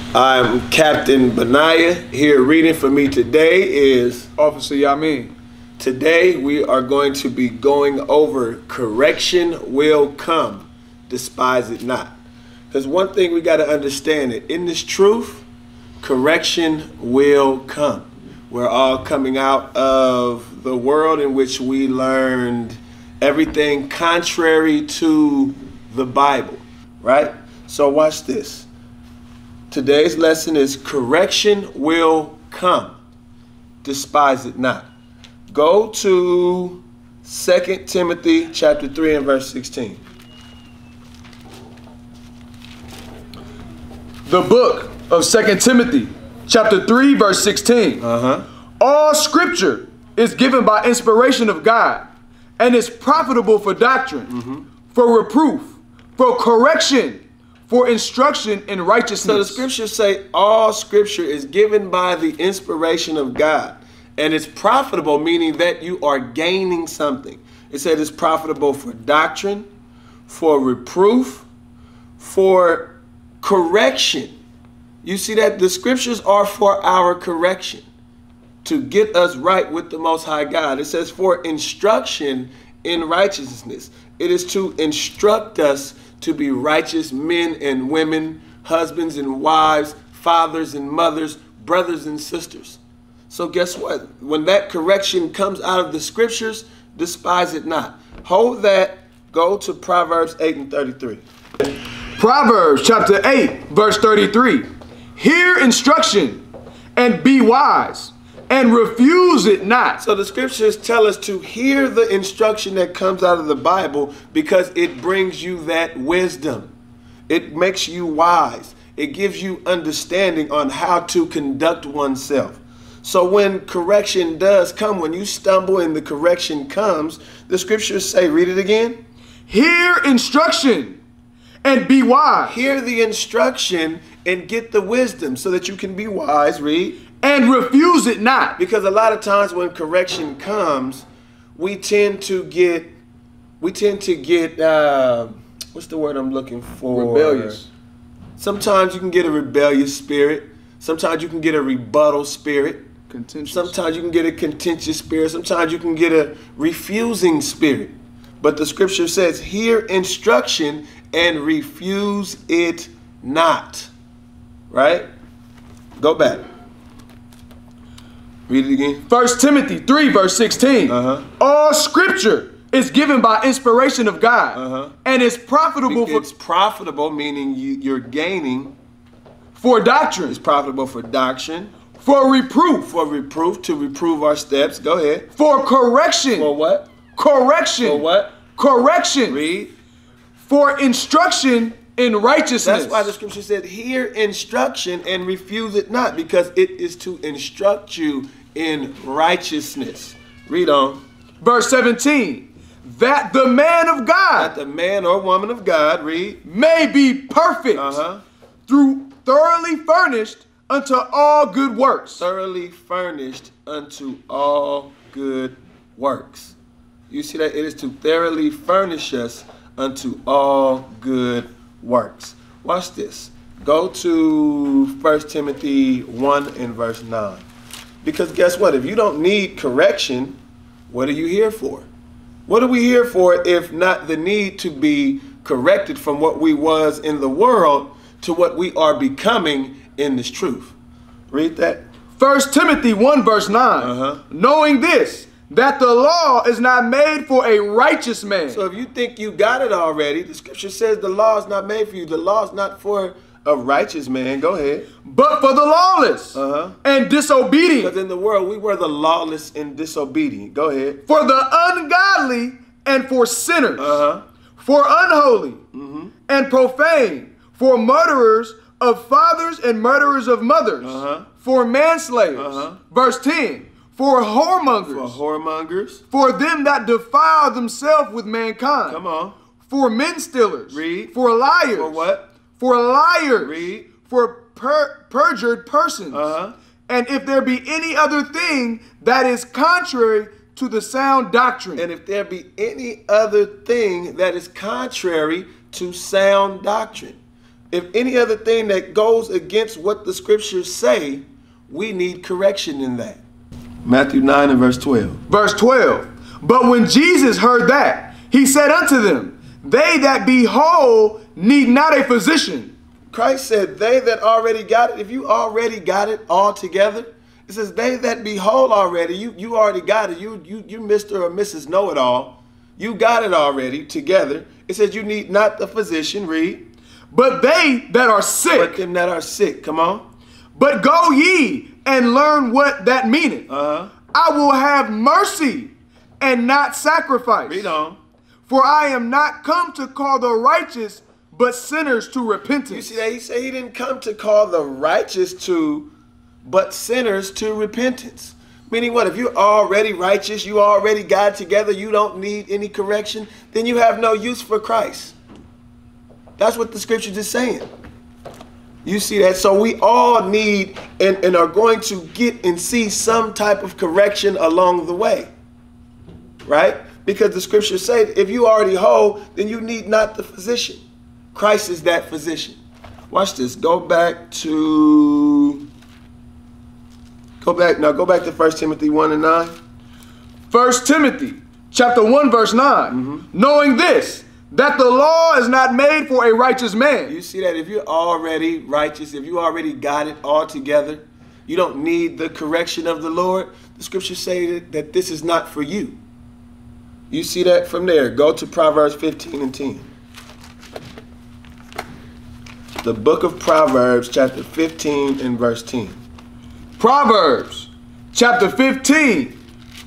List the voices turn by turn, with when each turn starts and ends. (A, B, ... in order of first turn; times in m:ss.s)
0:00.1-0:04.3 A
0:04.4-0:05.4 B
0:05.8-0:12.2 A
0:12.7-0:15.4 A
0:16.0-0:28.7 A
0:29.7-0:33.0 A
0:33.8-0:34.9 A
0:35.5-0:40.0 A
0:44.3-0:48.0 B
0:48.0-0:48.5 A
0:48.8-0:52.1 B
0:52.6-0:54.3 B
0:54.3-0:54.6 A
0:54.9-0:59.6 B
0:59.2-1:09.7 A
1:10.3-1:11.5 A
1:12.2-1:14.3 A
1:15.0-1:17.8 A
1:18.6-1:32.8 A
1:33.3-1:41.2 A
1:41.7-1:46.4 B
1:47.0-1:50.0 B
1:50.0-1:56.7 A
1:57.3-2:09.0 A
2:09.5-2:11.0 B
2:11.6-2:12.6 B
2:12.4-2:17.0 A
2:17.2-2:18.6 B
2:18.6-2:22.9 A
2:23.6-2:27.6 A
2:26.9-2:27.7 B
2:28.4-2:32.9 A
2:33.1-2:33.8 B
2:33.5-2:43.9 A
2:44.7-2:45.1 A
2:46.0-2:46.4 A
2:48.5-2:49.0 A
2:49.1-2:56.2 B
2:50.9-2:51.3 A
2:54.5-2:55.0 A
2:55.9-2:58.8 A
2:59.6-3:00.4 B
3:00.3-3:01.7 A
3:02.0-3:02.9 B
3:02.8-3:05.3 A
3:05.4-3:06.5 B
3:06.4-3:06.9 A
3:07.1-3:09.4 B
3:07.8-3:08.4 A
3:09.3-3:09.7 A
3:10.4-3:13.2 B
3:12.6-3:21.0 A
3:21.4-3:24.5 B
3:24.4-3:26.4 A
3:26.4-3:28.0 B
3:27.7-3:28.2 A
3:28.7-3:32.2 B
3:32.2-3:36.6 A
3:37.1-3:47.4 A
3:48.0-3:51.9 A
3:52.5-4:00.8 A
4:01.3-4:01.9 A
4:02.2-4:08.6 B
4:03.8-4:04.2 A
4:08.5-4:14.9 A
4:15.0-4:17.9 B
4:16.3-4:16.8 A
4:17.8-4:21.0 A
4:21.1-4:24.0 B
4:23.8-4:24.2 A
4:24.6-4:25.6 B
4:25.7-4:26.1 A
4:26.3-4:35.2 B
4:30.8-4:31.3 A
4:32.4-4:32.8 A
4:34.8-4:36.0 A
4:36.1-4:39.0 B
4:38.9-4:39.4 A
4:39.7-4:42.0 B
4:40.7-4:41.2 A
4:41.7-4:42.3 A
4:42.5-4:46.3 B
4:43.4-4:43.9 A
4:46.1-4:46.6 A
4:46.9-4:51.9 B
4:51.8-4:57.2 A
4:57.7-5:03.2 A
5:03.8-5:05.2 A
5:05.3-5:12.7 B
5:13.1-5:26.6 A
5:27.1-5:28.8 B
5:28.5-5:30.0 A
5:30.6-5:33.5 B
5:33.5-5:33.9 A
5:34.1-5:37.7 B
5:37.5-5:38.0 A
5:38.5-5:43.0 B
5:42.7-5:45.9 A
5:46.4-5:55.2 A
5:56.4-5:57.7 A
5:58.8-6:05.3 A
6:06.4-6:10.8 A
6:11.3-6:12.6 A
6:13.1-6:15.7 A
6:17.4-6:19.6 A
6:20.5-6:27.1 B
6:22.9-6:23.3 A
6:27.1-6:36.0 A
6:37.1-6:39.9 A
6:42.8-6:46.0 A
6:46.8-6:49.4 B